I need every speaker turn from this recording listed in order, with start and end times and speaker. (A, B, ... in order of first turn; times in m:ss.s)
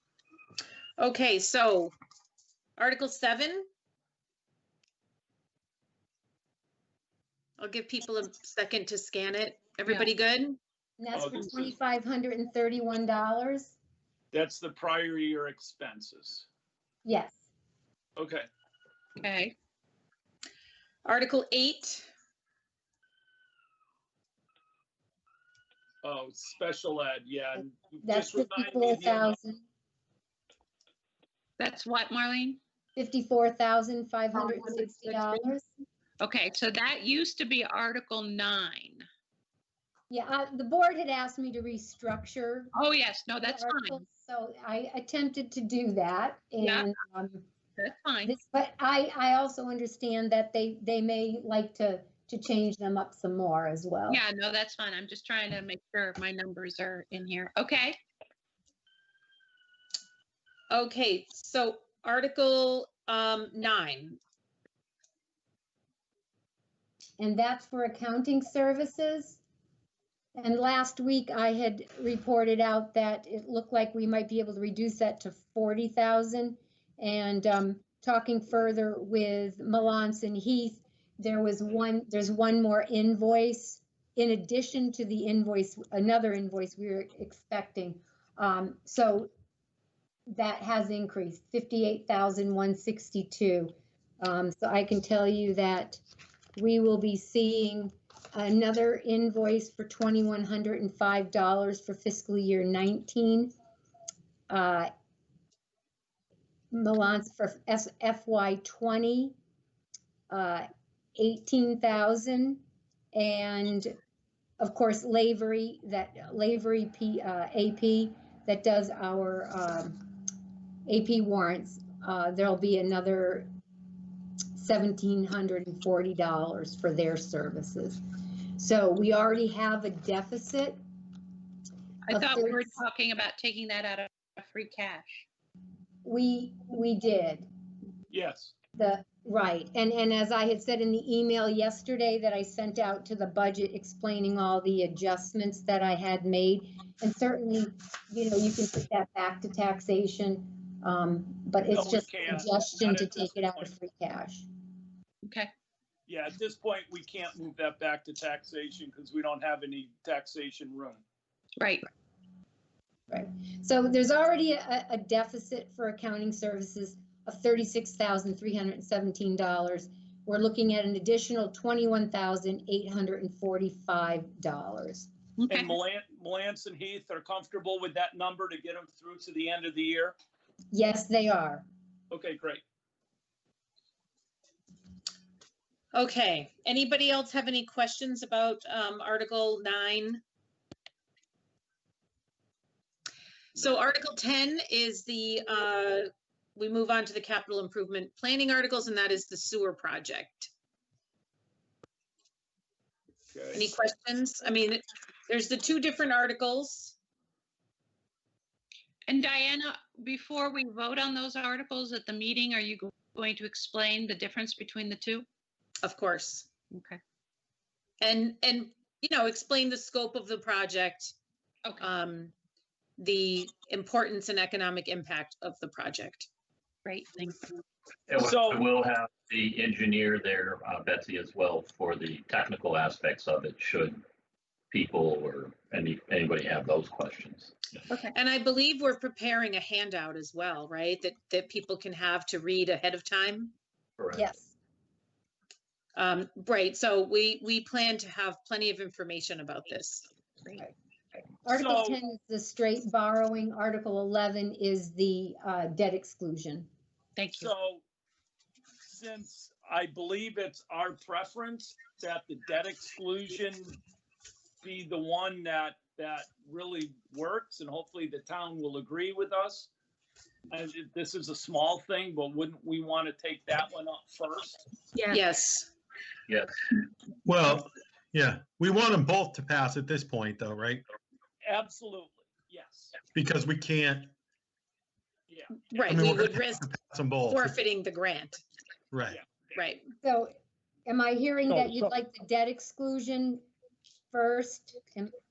0:01.0-0:01.9 A
0:02.8-0:03.7 A
0:07.6-0:10.6 A
0:11.0-0:13.8 B
0:11.1-0:11.7 C
0:14.3-0:16.5 C
0:17.0-0:17.4 B
0:18.2-0:18.5 C
0:19.2-0:19.6 D
0:21.0-0:22.1 A
0:26.0-0:29.4 C
0:28.0-0:29.6 B
0:31.6-0:32.6 D
0:33.0-0:35.7 B
0:34.5-0:35.4 D
0:36.2-0:39.0 D
0:40.1-0:42.7 B
0:42.8-0:44.0 D
0:43.4-0:47.5 B
0:46.6-0:46.9 D
0:47.8-0:48.4 D
0:48.2-0:54.2 B
0:54.1-0:58.0 D
1:00.7-1:04.2 A
1:07.2-1:09.4 B
1:10.4-1:29.3 B
1:30.3-1:36.0 B
1:36.6-1:43.5 B
1:44.5-1:44.9 B
1:46.7-1:49.4 B
1:50.3-1:54.0 B
1:54.6-2:00.0 B
2:00.9-2:03.5 B
2:04.6-2:08.0 B
2:08.6-2:10.8 B
2:12.1-2:15.2 D
2:12.1-2:12.8 B
2:16.0-2:17.5 B
2:18.1-2:18.5 C
2:18.8-2:34.5 B
2:31.7-2:33.7 C
2:35.3-2:35.5 D
2:36.1-2:41.0 C
2:41.6-2:41.9 D
2:43.1-2:55.1 B
2:55.4-2:55.7 D
2:55.5-3:00.2 C
3:00.7-3:01.6 B
3:02.1-3:02.6 C
3:05.9-3:10.2 A
3:13.6-3:20.5 A
3:23.5-3:27.0 A
3:29.1-3:35.3 D
3:35.8-3:36.5 A
3:36.7-3:37.0 D
3:38.0-3:41.2 A
3:41.8-3:42.3 A
3:43.0-3:46.3 A
3:46.8-3:47.4 D
3:48.1-3:54.0 E
3:48.2-3:48.5 C
3:54.7-3:57.9 E
3:58.1-4:03.6 A
4:04.0-4:04.3 E
4:04.1-4:04.5 B
4:06.0-4:10.1 A
4:11.4-4:16.7 B
4:11.5-4:12.0 C
4:17.2-4:17.5 D
4:17.3-4:17.8 C
4:18.8-4:23.8 C
4:24.6-4:29.7 C
4:30.5-4:34.6 C
4:35.0-4:35.2 D
4:35.1-4:35.7 A
4:36.3-4:36.5 E
4:37.2-4:40.8 F
4:41.4-4:42.9 C
4:43.1-4:44.1 F
4:45.3-4:45.6 C
4:45.7-4:46.7 A
4:45.9-4:47.6 F
4:47.3-4:48.4 A
4:48.9-4:49.2 F
4:49.5-4:49.9 A
4:50.0-4:50.4 B
4:50.9-4:53.4 B
4:54.1-4:55.1 B